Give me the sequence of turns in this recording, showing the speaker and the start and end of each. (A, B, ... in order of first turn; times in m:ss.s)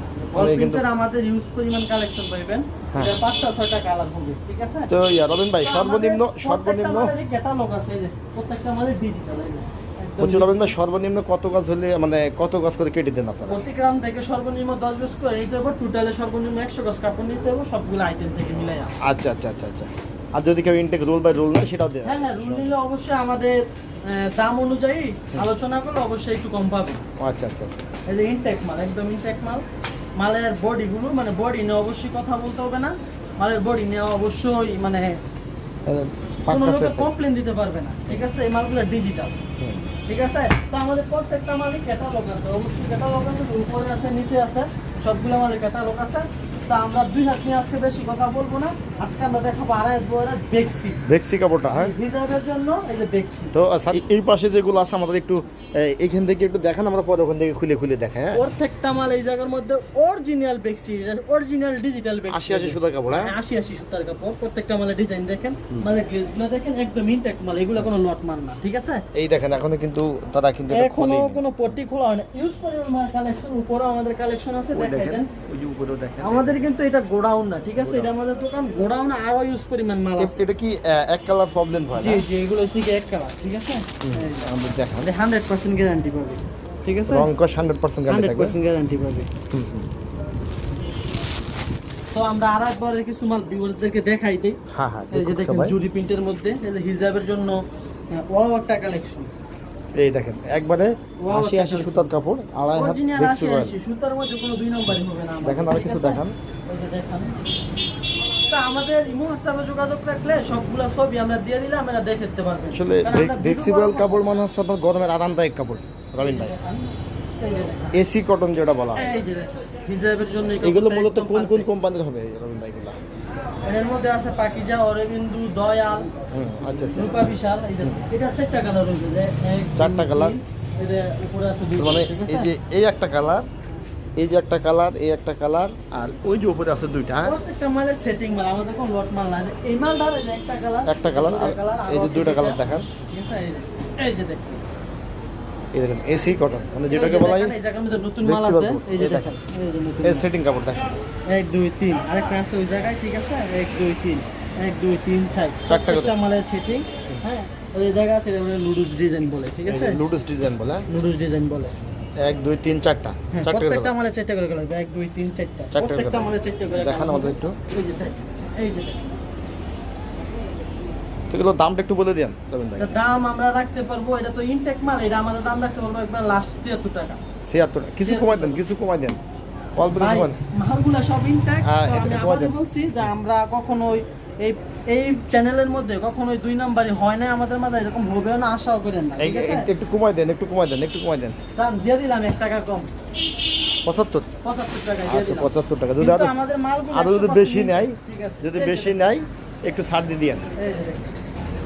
0:00.3-0:04.9 A
0:00.3-0:00.8 B
0:02.9-0:03.2 B
0:04.9-0:07.1 B
0:05.6-0:10.6 A
0:10.2-0:13.6 B
0:13.5-0:18.9 A
0:19.0-0:22.7 B
0:22.0-0:27.0 A
0:27.2-0:27.7 B
0:28.1-0:29.6 A
0:30.2-0:35.2 A
0:35.8-0:37.1 B
0:36.5-0:39.4 A
0:39.6-0:39.9 B
0:40.0-0:51.0 A
0:51.0-0:51.9 B
0:51.7-0:53.5 A
0:53.5-0:58.4 B
0:58.3-1:09.0 A
1:02.3-1:03.3 B
1:09.1-1:11.5 B
1:10.7-1:15.3 A
1:14.7-1:16.6 B
1:16.2-1:20.4 A
1:17.8-1:18.1 B
1:20.2-1:22.2 B
1:21.9-1:24.5 A
1:24.0-1:25.1 B
1:25.0-1:27.3 A
1:27.1-1:28.5 B
1:28.1-1:29.3 A
1:29.5-1:29.9 B
1:32.1-1:34.6 A
1:34.7-1:35.7 B
1:35.1-1:37.6 A
1:38.1-1:39.3 A
1:40.0-1:43.7 B
1:41.2-1:42.1 A
1:42.7-1:47.4 A
1:45.4-1:46.3 B
1:48.5-1:54.2 A
1:52.7-1:56.5 B
1:56.2-1:58.0 A
1:57.9-1:59.1 B
1:58.9-2:01.7 A
2:00.5-2:03.0 B
2:03.6-2:12.5 A
2:06.3-2:07.3 B
2:09.8-2:10.4 B
2:11.8-2:13.4 B
2:14.2-2:17.4 B
2:17.2-2:24.6 A
2:20.9-2:22.9 B
2:25.7-2:27.5 B
2:26.9-2:30.3 A
2:28.2-2:29.3 B
2:30.0-2:31.0 B
2:31.3-2:40.0 A
2:35.7-2:36.1 B
2:39.7-2:40.8 B
2:40.9-2:41.7 A
2:42.2-2:43.9 B
2:43.3-2:49.0 A
2:45.7-2:47.6 B
2:51.3-2:53.0 B
2:52.8-2:57.2 A
2:57.4-2:59.2 B
2:58.0-2:58.6 A
2:59.8-3:00.4 B
2:59.9-3:09.7 A
3:01.6-3:02.5 B
3:09.2-3:11.4 B
3:11.5-3:12.9 A
3:13.8-3:14.3 B
3:14.4-3:19.0 A
3:15.0-3:16.3 B
3:16.9-3:20.4 B
3:20.6-3:21.1 A